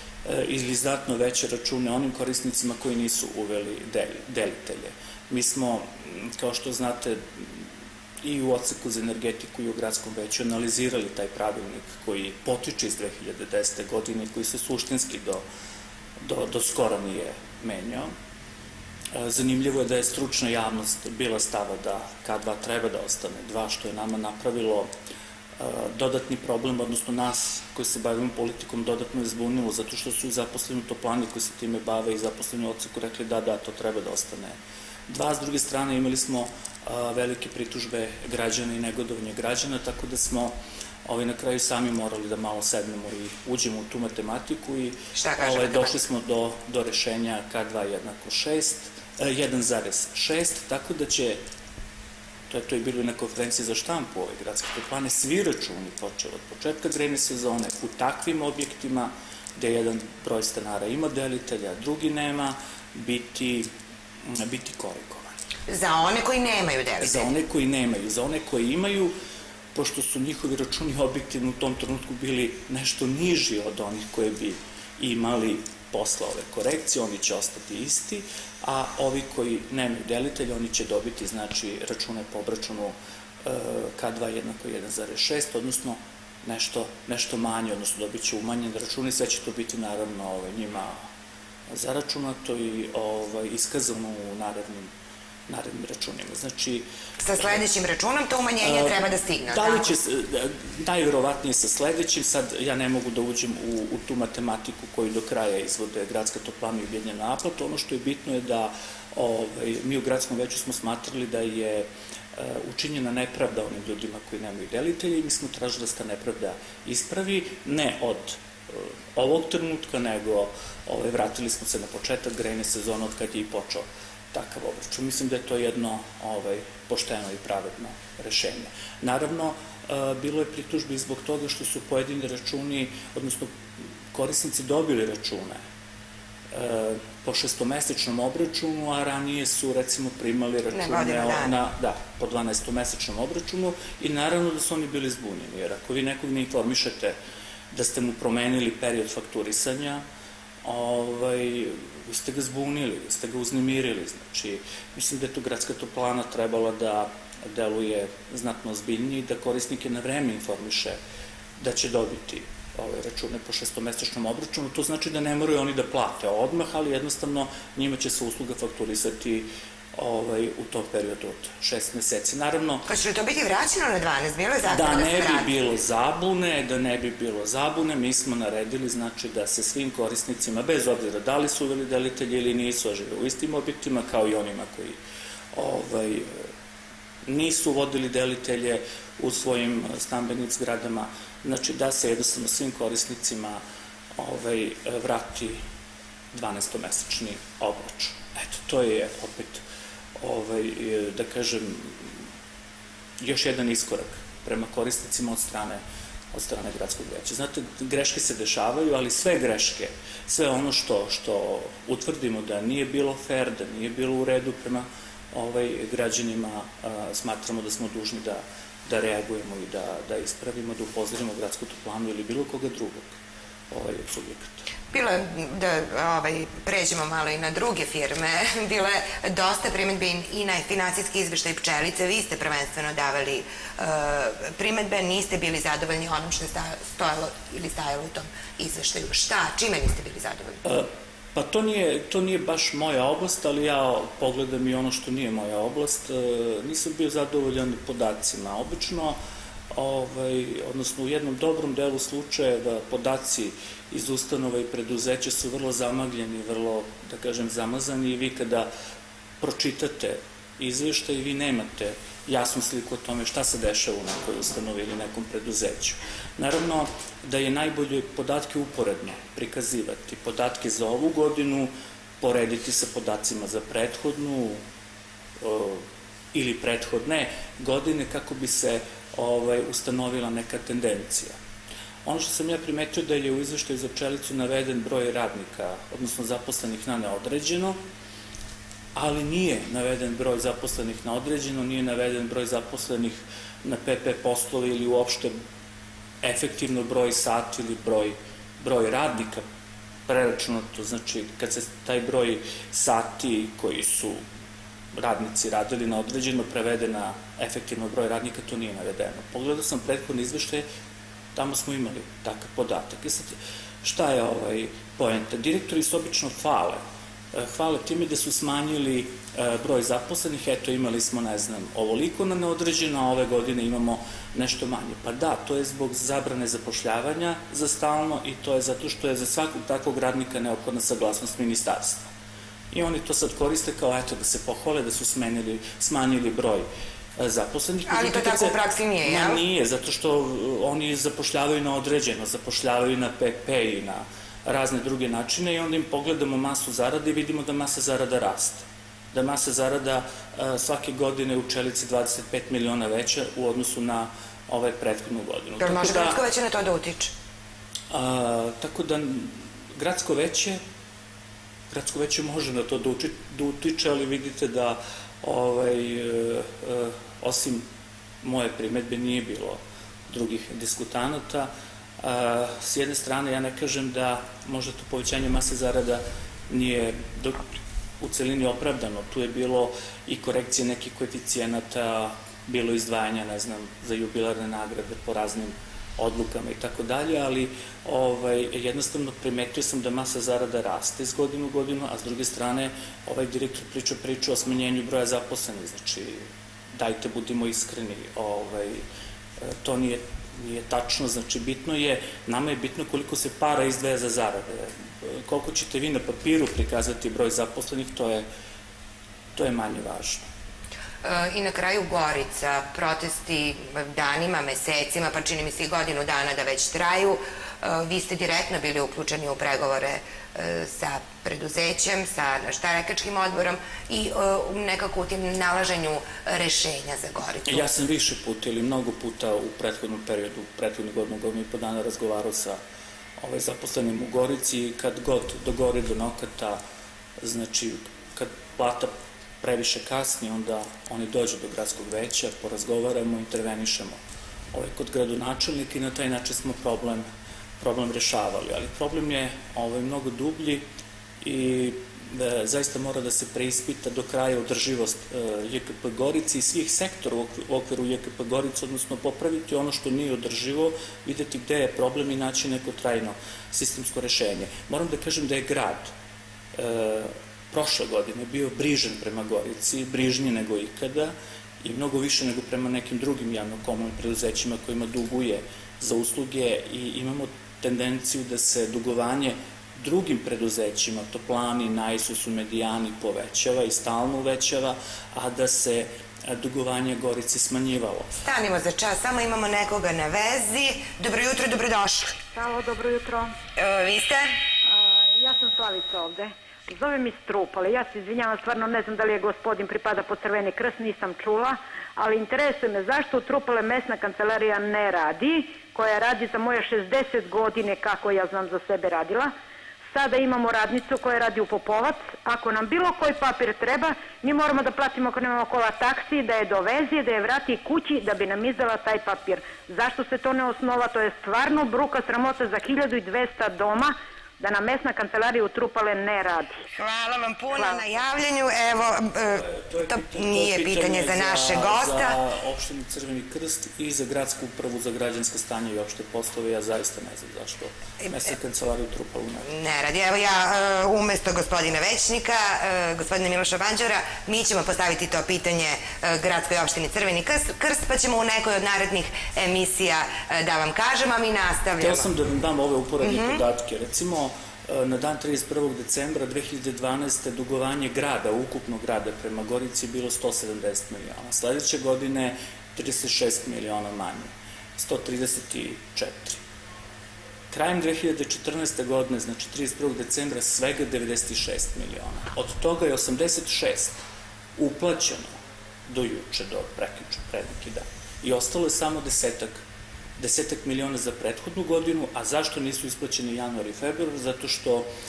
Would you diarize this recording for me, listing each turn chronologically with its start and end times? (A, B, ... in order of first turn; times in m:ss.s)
0:00.2-0:15.4 A
0:16.2-0:18.1 A
0:19.1-0:24.9 A
0:25.6-0:34.6 A
0:35.1-0:51.4 A
0:45.1-0:46.0 B
0:52.5-1:03.7 A
1:04.2-1:05.4 A
1:05.7-1:07.3 B
1:07.0-1:09.1 A
1:09.7-1:31.0 A
1:31.7-1:34.9 A
1:35.5-1:37.6 A
1:37.2-1:39.9 B
1:38.6-2:13.6 A
2:14.1-2:15.6 A
2:16.5-2:27.2 A
2:20.7-2:21.5 B
2:27.7-2:30.0 A
2:30.6-2:41.0 A
2:41.6-2:52.9 A
2:52.8-2:55.5 B
2:54.6-3:05.0 A
3:05.5-3:06.4 A
3:07.2-3:13.6 A
3:14.2-3:15.6 A
3:16.3-3:19.6 A
3:20.2-3:22.2 A
3:23.2-3:25.8 A
3:26.3-3:43.1 A
3:43.7-3:44.6 A
3:44.9-4:00.6 B
4:00.6-4:09.2 A
4:09.7-4:18.7 A
4:19.4-4:34.6 A
4:35.4-4:41.3 A
4:42.0-4:47.8 A
4:48.9-4:55.3 A
4:56.2-4:59.4 A
5:00.1-5:04.2 A
5:04.9-5:10.6 A
5:11.3-5:16.8 A
5:17.3-5:32.1 A
5:32.7-5:36.6 A
5:37.2-5:56.2 A
5:37.9-5:39.4 B
5:55.6-5:57.1 B
5:57.9-6:00.6 A
6:01.7-6:07.6 A
6:08.2-6:17.4 A
6:18.0-6:38.8 A
6:39.4-6:48.2 A
6:49.3-6:50.2 A
6:51.0-7:07.7 B
7:07.4-7:12.6 A
7:13.2-7:16.6 A
7:17.2-7:24.0 A
7:24.5-7:27.0 A
7:27.6-7:30.6 A
7:31.2-7:45.9 A
7:46.5-8:08.1 A
8:08.1-8:12.2 B
8:12.3-8:13.3 C
8:13.6-8:14.3 B
8:14.6-8:29.3 C
8:29.9-8:46.6 C
8:46.7-8:52.2 B
8:49.4-8:59.5 A
8:59.4-9:12.1 B
9:11.8-9:26.4 A
9:13.0-9:13.4 B
9:27.5-9:34.0 A
9:34.6-9:35.3 A
9:35.9-9:39.6 A
9:40.2-9:44.9 A